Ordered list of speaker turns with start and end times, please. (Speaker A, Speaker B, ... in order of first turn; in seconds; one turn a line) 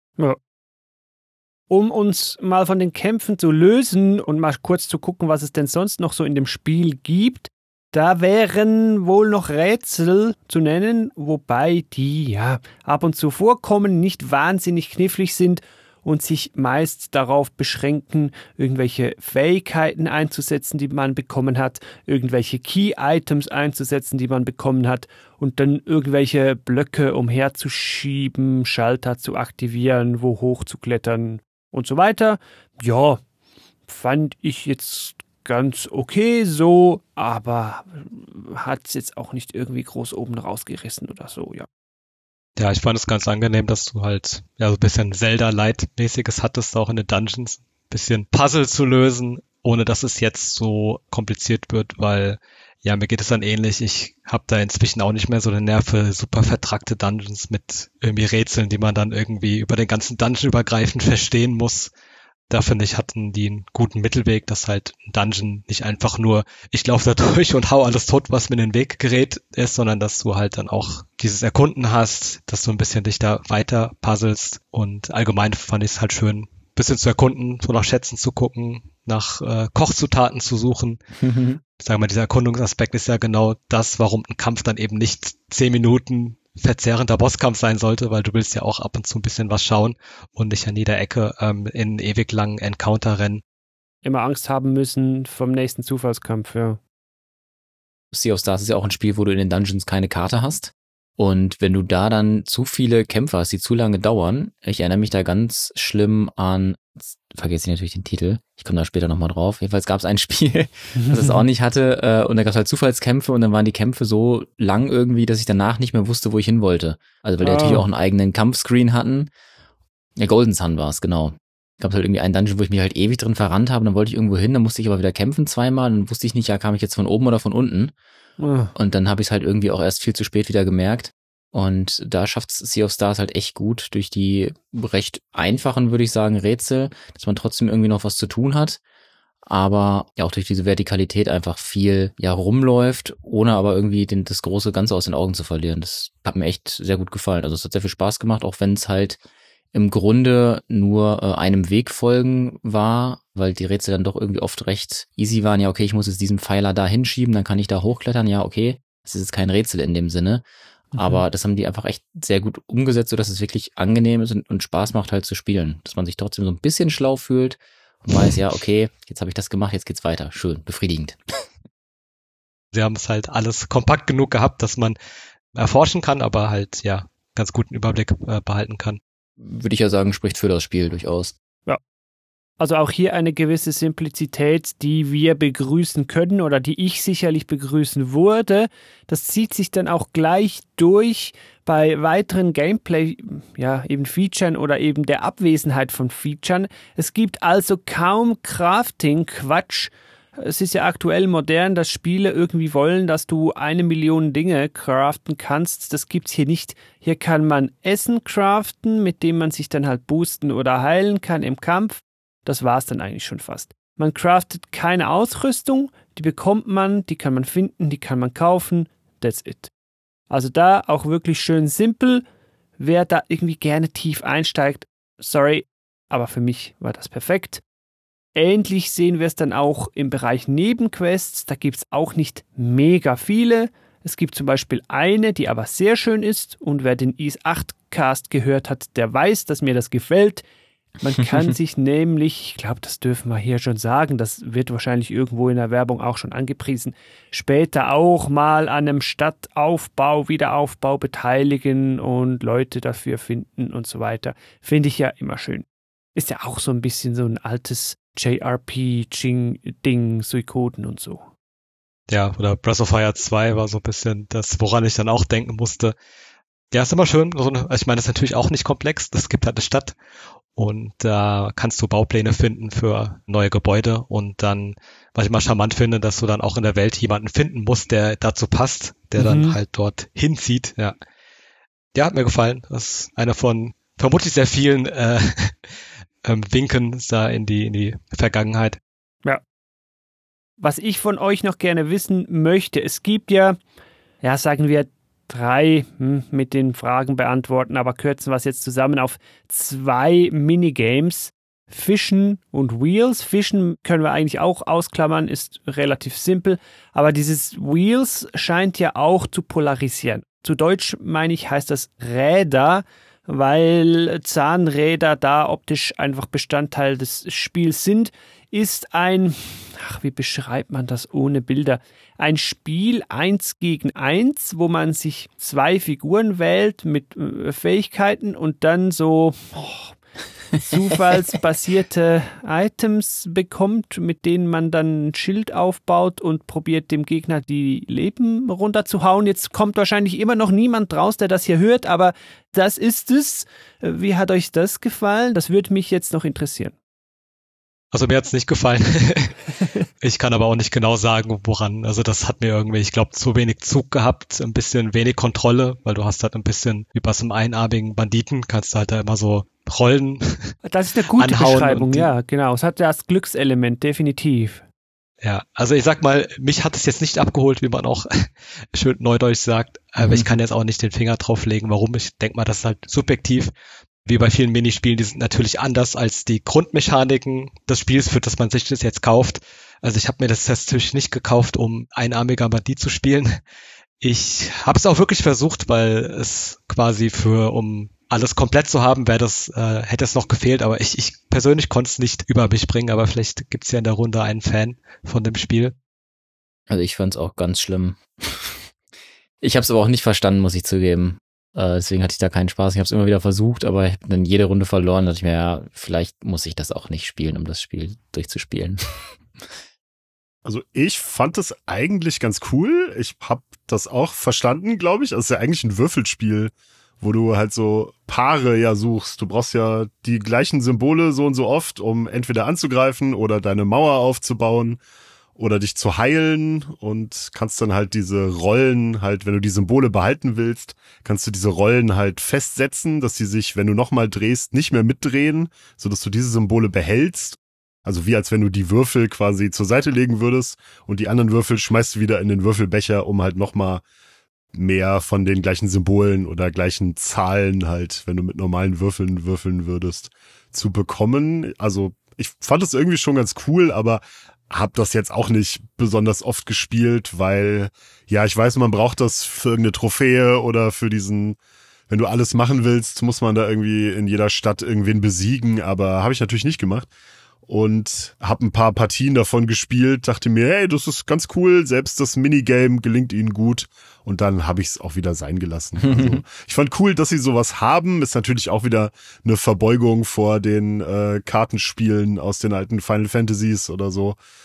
Speaker A: 1.7-33.2
Speaker A: 33.9-41.7
Speaker B: 42.6-61.9
Speaker B: 62.5-81.0
Speaker C: 81.2-81.6
Speaker B: 81.8-93.4
Speaker A: 94.0-96.8
Speaker C: 98.1-119.3
Speaker A: 111.0-111.4
Speaker A: 117.4-117.9
Speaker C: 120.2-127.9
Speaker A: 128.4-128.7
Speaker C: 128.8-138.8
Speaker C: 139.5-149.2
Speaker C: 149.7-160.4
Speaker C: 161.0-171.2
Speaker A: 161.0-161.2
Speaker B: 172.7-175.0
Speaker B: 175.6-179.0
Speaker C: 179.4-181.3
Speaker A: 182.6-219.7
Speaker A: 220.3-222.2
Speaker A: 222.8-227.6
Speaker A: 228.4-240.4
Speaker A: 241.0-261.3
Speaker B: 262.1-265.9
Speaker B: 266.7-269.9
Speaker B: 270.6-280.9
Speaker A: 279.2-279.6
Speaker B: 281.9-285.6
Speaker B: 286.2-288.8
Speaker A: 290.6-293.6
Speaker A: 294.2-329.9
Speaker A: 330.6-346.8
Speaker B: 347.9-349.4
Speaker B: 350.0-360.6
Speaker A: 360.6-364.6
Speaker B: 361.1-362.1
Speaker B: 365.2-373.5
Speaker C: 370.0-370.4
Speaker B: 374.1-383.4
Speaker B: 384.0-395.8
Speaker C: 396.7-398.6
Speaker C: 399.4-408.8
Speaker D: 410.4-424.8
Speaker D: 425.4-443.8
Speaker D: 444.5-461.4
Speaker D: 461.9-466.9
Speaker D: 467.5-484.2
Speaker C: 475.9-476.2